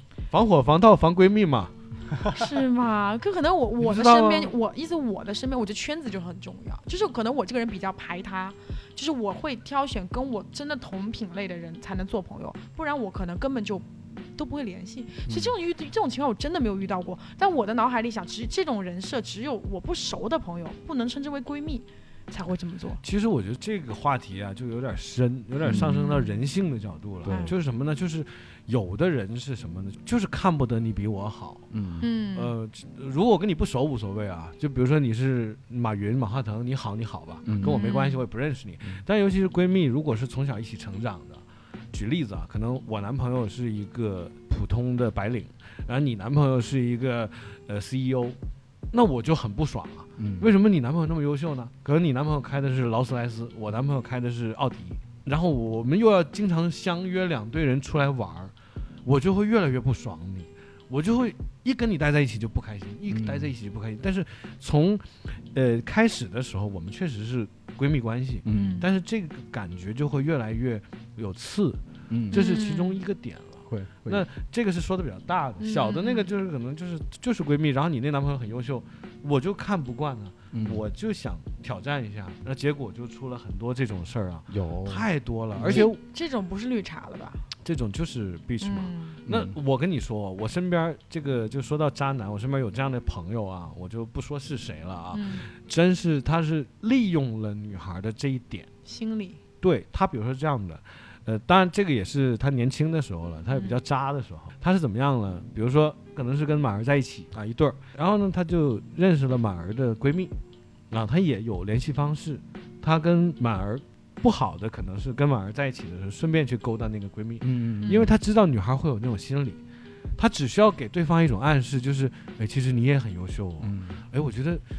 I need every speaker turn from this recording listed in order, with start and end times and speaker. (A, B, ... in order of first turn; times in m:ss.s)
0:00.3-0:01.7 A
0:02.3-0:23.0 B
0:03.8-0:04.5 A
0:23.0-0:31.6 A
0:25.6-0:26.0 C
0:25.7-0:26.4 B
0:27.3-0:27.6 B
0:31.7-0:32.1 C
0:32.0-0:32.6 B
0:32.4-0:48.4 A
0:37.5-0:37.8 C
0:37.6-0:38.2 B
0:48.9-0:58.5 A
0:50.2-0:50.5 C
0:59.0-1:26.0 A
1:03.1-1:03.5 C
1:08.4-1:08.9 C
1:08.5-1:08.9 B
1:12.1-1:12.4 C
1:12.3-1:13.0 B
1:13.7-1:14.2 C
1:15.6-1:16.3 B
1:20.5-1:20.8 C
1:24.5-1:25.9 C
1:25.6-1:27.5 B
1:27.6-1:38.7 A
1:28.6-1:29.2 B
1:29.3-1:29.6 C
1:35.1-1:35.5 B
1:38.9-1:39.4 B
1:39.6-1:50.3 A
1:43.5-1:43.8 B
1:50.9-1:59.6 A
1:57.4-1:58.1 C
1:57.8-1:58.1 B
2:00.2-2:04.6 A
2:03.6-2:04.0 C